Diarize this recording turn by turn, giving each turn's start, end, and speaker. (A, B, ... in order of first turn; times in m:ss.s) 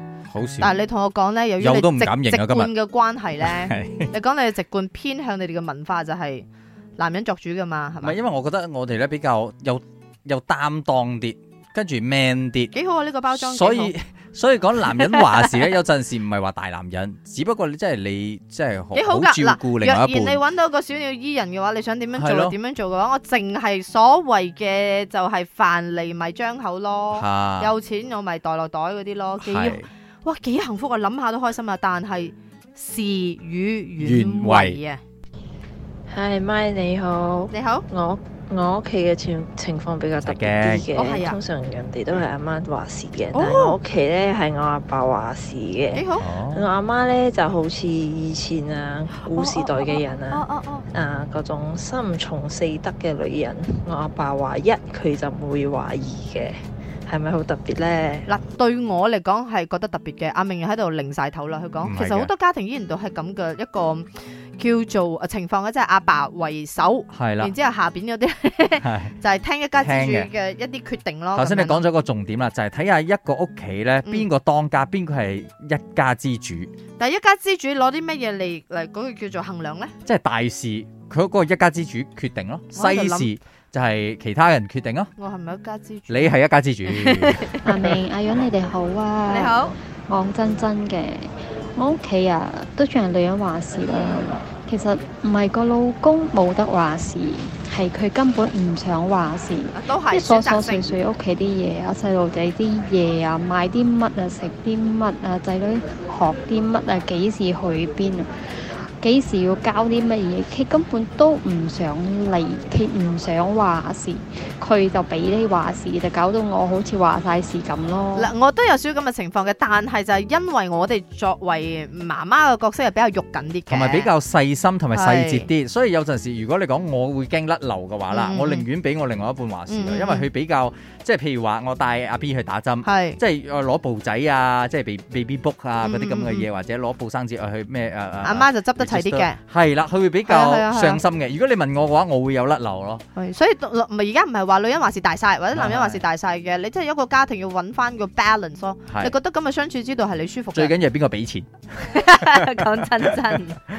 0:00.3-0:00.8 A
0:00.6-0:08.2 B
0:01.6-0:02.7 A
0:03.4-0:04.1 A
0:08.0-0:12.7 A
0:12.7-0:13.9 B
0:13.3-0:20.4 A
0:14.9-0:15.2 B
0:18.9-0:35.0 B
0:22.1-0:22.6 A
0:27.1-0:27.7 A
0:29.4-0:29.8 A
0:34.0-0:34.8 A
0:36.1-0:58.3 C
0:37.5-0:37.8 B
0:40.2-0:40.9 A
0:40.9-0:41.4 B
0:43.3-0:43.8 B
0:45.9-0:46.3 B
0:46.2-0:46.7 A
0:49.3-0:50.8 B
0:58.3-1:11.8 B
1:01.8-1:02.3 A
1:07.1-1:07.5 A
1:08.8-1:09.1 A
1:09.8-1:10.3 A
1:11.3-1:16.7 A
1:17.0-1:19.9 B
1:20.0-1:25.1 A
1:22.7-1:23.3 B
1:25.2-1:26.3 B
1:26.1-1:27.6 A
1:26.9-1:27.9 B
1:27.5-1:48.3 D
1:29.3-1:29.7 B
1:39.7-1:40.9 B
1:49.0-1:58.3 D
1:58.1-2:04.1 B
2:03.7-2:23.0 A
2:04.9-2:05.5 B
2:08.1-2:08.6 B
2:09.7-2:10.3 B
2:12.8-2:13.2 B
2:15.8-2:16.5 B
2:18.2-2:19.4 B
2:20.2-2:21.0 B
2:23.2-2:30.8 B
2:25.5-2:26.0 A
2:28.9-2:29.1 A
2:30.5-2:31.5 A
2:31.8-2:33.6 B
2:32.2-2:32.6 A